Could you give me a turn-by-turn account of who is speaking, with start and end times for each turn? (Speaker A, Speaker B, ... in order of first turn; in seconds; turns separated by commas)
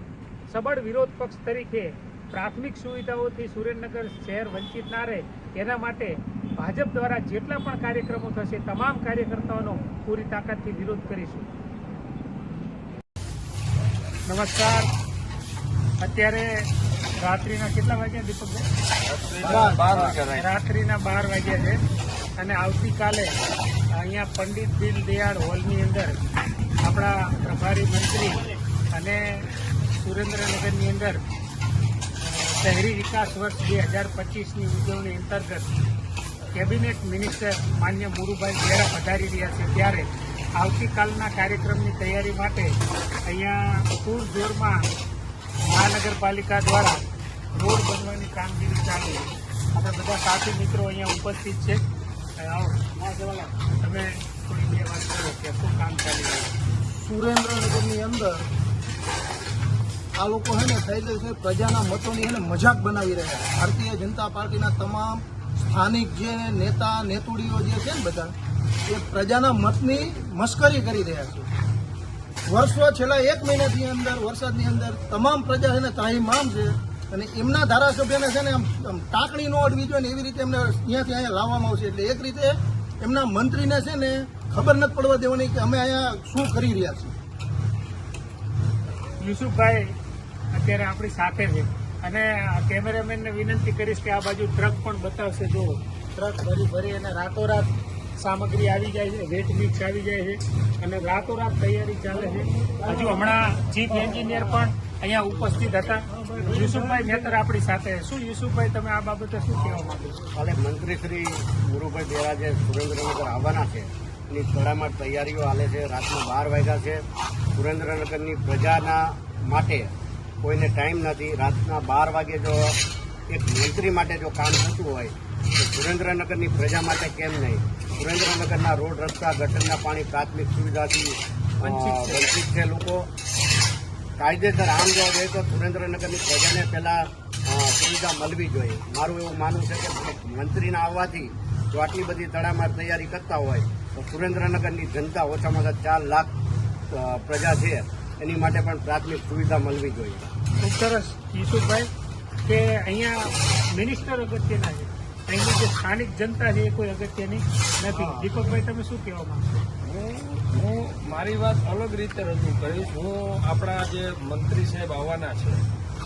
Speaker A: 0.5-11.5, Speaker A: 14.2-14.9, Speaker A: 16.0-16.6, Speaker A: 17.2-18.6, Speaker B: 19.1-20.5, Speaker C: 19.4-20.2, Speaker A: 20.3-21.8, Speaker A: 22.4-23.3, Speaker A: 23.9-26.1, Speaker A: 26.8-31.2, Speaker A: 32.2-35.7, Speaker A: 36.5-42.7, Speaker A: 43.2-44.8, Speaker A: 45.6-47.0, Speaker A: 47.5-51.8, Speaker A: 52.4-56.5, Speaker C: 56.9-58.4, Speaker C: 60.1-68.3, Speaker C: 68.9-71.5, Speaker C: 72.5-87.1, Speaker A: 89.2-89.8, Speaker A: 90.5-110.2, Speaker D: 110.3-117.0, Speaker D: 117.5-119.9, Speaker D: 120.4-122.8, Speaker D: 123.3-133.1, Speaker A: 131.7-132.2, Speaker D: 134.2-146.3, Speaker D: 146.9-150.3, Speaker A: 150.6-151.9, Speaker A: 152.5-159.6, Speaker B: 157.9-158.3, Speaker B: 159.8-165.6